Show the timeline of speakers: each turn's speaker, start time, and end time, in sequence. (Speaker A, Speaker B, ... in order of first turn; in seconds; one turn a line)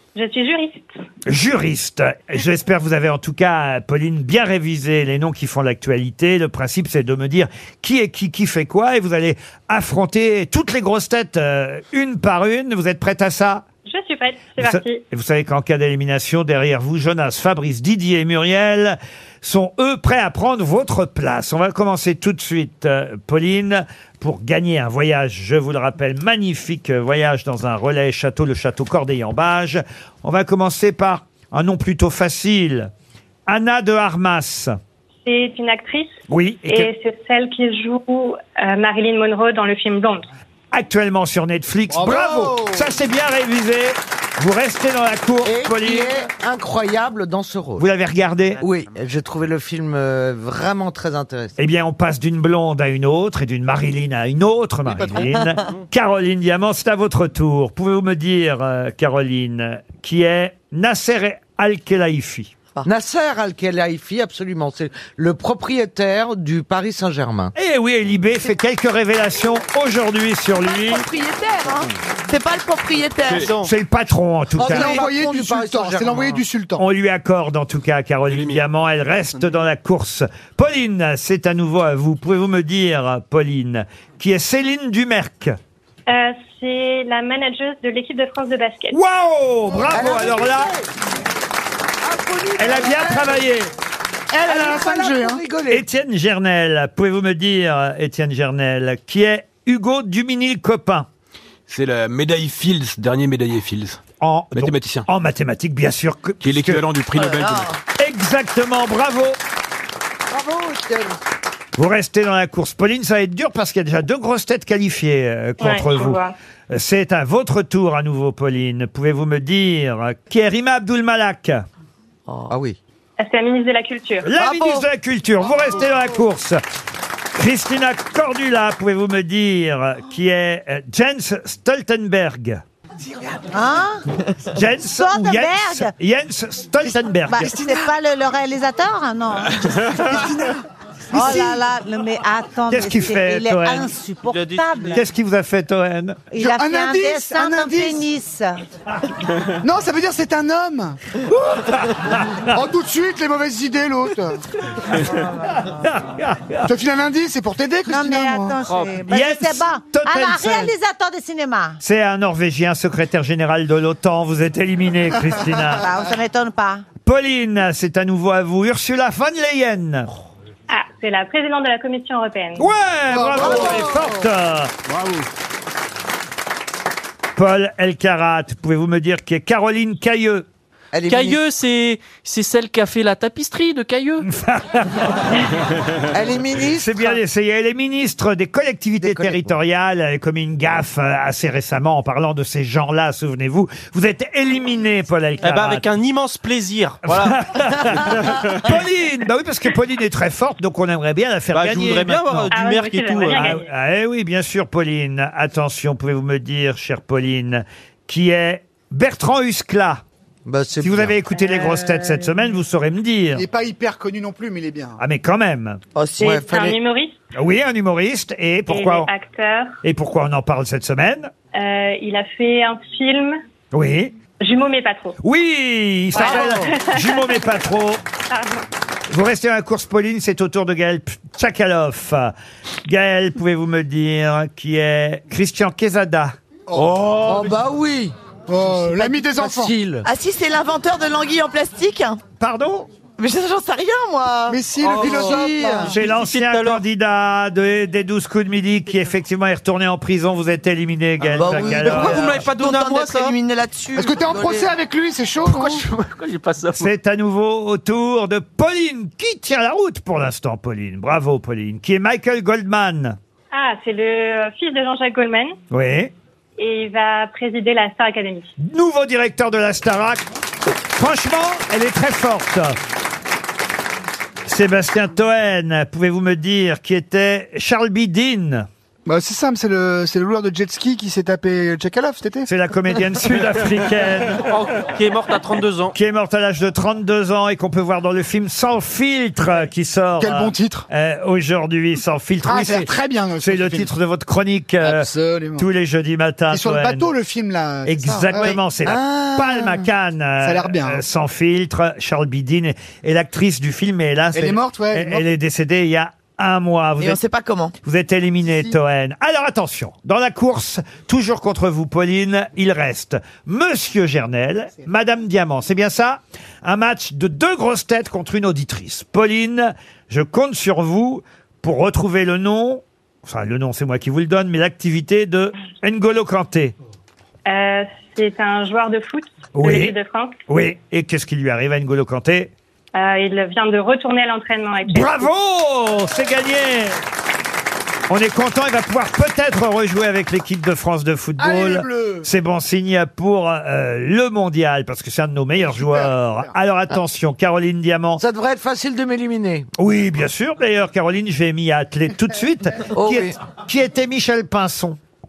Speaker A: 0.1-0.9
Speaker B: 1.3-13.6
Speaker A: 13.9-15.0
Speaker B: 14.6-32.9
Speaker B: 33.5-34.7
Speaker A: 35.2-36.1
Speaker B: 36.3-36.9
Speaker A: 36.7-40.3
Speaker B: 40.7-46.3
Speaker C: 41.9-42.9
Speaker D: 45.4-47.9
Speaker B: 47.8-48.6
Speaker D: 48.6-51.6
Speaker B: 51.6-62.5
Speaker D: 54.9-55.3
Speaker D: 62.8-67.5
Speaker B: 67.6-71.1
Speaker E: 70.6-73.6
Speaker F: 73.3-73.7
Speaker B: 73.7-75.0
Speaker D: 74.5-76.4
Speaker C: 74.6-76.8
Speaker B: 76.8-85.5
Speaker G: 78.3-78.6
Speaker A: 86.1-89.0
Speaker B: 88.9-90.7
Speaker D: 89.9-90.7
Speaker D: 92.0-93.4
Speaker B: 92.6-93.7
Speaker D: 94.3-95.8
Speaker C: 94.4-95.4
Speaker B: 95.7-101.1
Speaker G: 101.7-104.0
Speaker B: 104.2-106.8
Speaker G: 104.5-105.1
Speaker G: 106.4-107.8
Speaker E: 107.2-107.8
Speaker B: 108.0-109.4
Speaker D: 110.3-111.2
Speaker B: 111.8-121.6
Speaker A: 115.6-116.3
Speaker D: 122.5-122.8
Speaker A: 123.2-124.3
Speaker B: 124.2-126.6
Speaker E: 124.4-124.8
Speaker B: 127.3-132.6
Speaker H: 133.5-134.0
Speaker B: 134.4-137.5
Speaker H: 134.9-135.9
Speaker H: 137.2-140.6
Speaker C: 137.4-137.9
Speaker C: 141.1-141.7
Speaker H: 141.1-145.0
Speaker B: 142.7-143.9
Speaker F: 144.3-145.0
Speaker B: 144.9-146.3
Speaker H: 146.3-148.6
Speaker C: 146.4-148.1
Speaker C: 149.6-151.0
Speaker B: 151.3-152.5
Speaker C: 152.5-154.4
Speaker B: 155.4-156.7
Speaker C: 156.7-158.6
Speaker H: 157.9-161.8
Speaker F: 158.7-159.0
Speaker B: 159.1-160.7
Speaker B: 161.8-165.9
Speaker H: 165.8-166.8
Speaker B: 167.0-170.1
Speaker A: 170.7-172.7
Speaker B: 172.6-174.7
Speaker C: 173.1-174.1
Speaker G: 174.9-175.3
Speaker B: 177.4-180.5
Speaker D: 180.9-181.4
Speaker F: 181.1-184.2
Speaker B: 184.2-185.5
Speaker D: 186.1-187.2
Speaker B: 186.7-195.9
Speaker D: 189.0-189.5
Speaker F: 195.4-198.5
Speaker B: 197.1-202.6
Speaker F: 201.5-203.5
Speaker A: 202.5-203.7
Speaker B: 203.3-210.0
Speaker D: 210.5-211.2
Speaker B: 210.8-213.5
Speaker A: 211.3-212.3
Speaker C: 213.3-215.0
Speaker B: 215.0-215.8
Speaker E: 216.0-216.5
Speaker D: 216.2-216.8
Speaker A: 216.2-217.2
Speaker B: 217.3-219.1
Speaker A: 218.7-219.8
Speaker B: 219.8-221.3
Speaker A: 221.6-223.4
Speaker B: 223.7-224.1
Speaker A: 224.4-225.2
Speaker B: 225.2-228.0
Speaker A: 226.1-227.5
Speaker A: 228.3-228.6
Speaker B: 229.1-232.3
Speaker B: 232.8-236.3
Speaker C: 236.7-236.9
Speaker D: 236.8-240.1
Speaker C: 238.5-239.8
Speaker E: 240.0-242.2
Speaker B: 242.4-242.9
Speaker E: 243.2-245.3
Speaker C: 244.5-245.9
Speaker F: 244.8-245.4
Speaker D: 244.8-245.9
Speaker B: 245.9-252.5
Speaker F: 245.9-246.8
Speaker E: 251.4-254.7
Speaker F: 251.8-253.4
Speaker C: 253.9-255.9
Speaker F: 255.4-256.9
Speaker B: 256.8-263.2
Speaker A: 263.5-265.6
Speaker B: 265.7-266.1
Speaker A: 266.6-268.5
Speaker B: 268.6-270.2
Speaker B: 270.9-272.8
Speaker B: 274.5-278.7
Speaker C: 279.1-282.5
Speaker B: 282.5-284.4
Speaker F: 284.5-285.9
Speaker B: 285.9-297.1
Speaker C: 290.2-290.9
Speaker C: 292.4-293.9
Speaker C: 294.8-295.7
Speaker C: 296.5-298.6
Speaker B: 297.9-307.2
Speaker D: 298.9-299.5
Speaker C: 300.4-301.0
Speaker C: 304.3-305.2
Speaker E: 307.0-307.7
Speaker B: 307.8-326.7
Speaker A: 327.5-330.4
Speaker B: 329.6-330.0
Speaker B: 330.5-332.5
Speaker A: 332.9-335.3
Speaker B: 334.9-337.0
Speaker B: 338.1-348.2
Speaker C: 341.4-342.3
Speaker C: 345.7-346.5
Speaker D: 348.2-349.7
Speaker B: 349.8-355.0
Speaker D: 353.0-353.4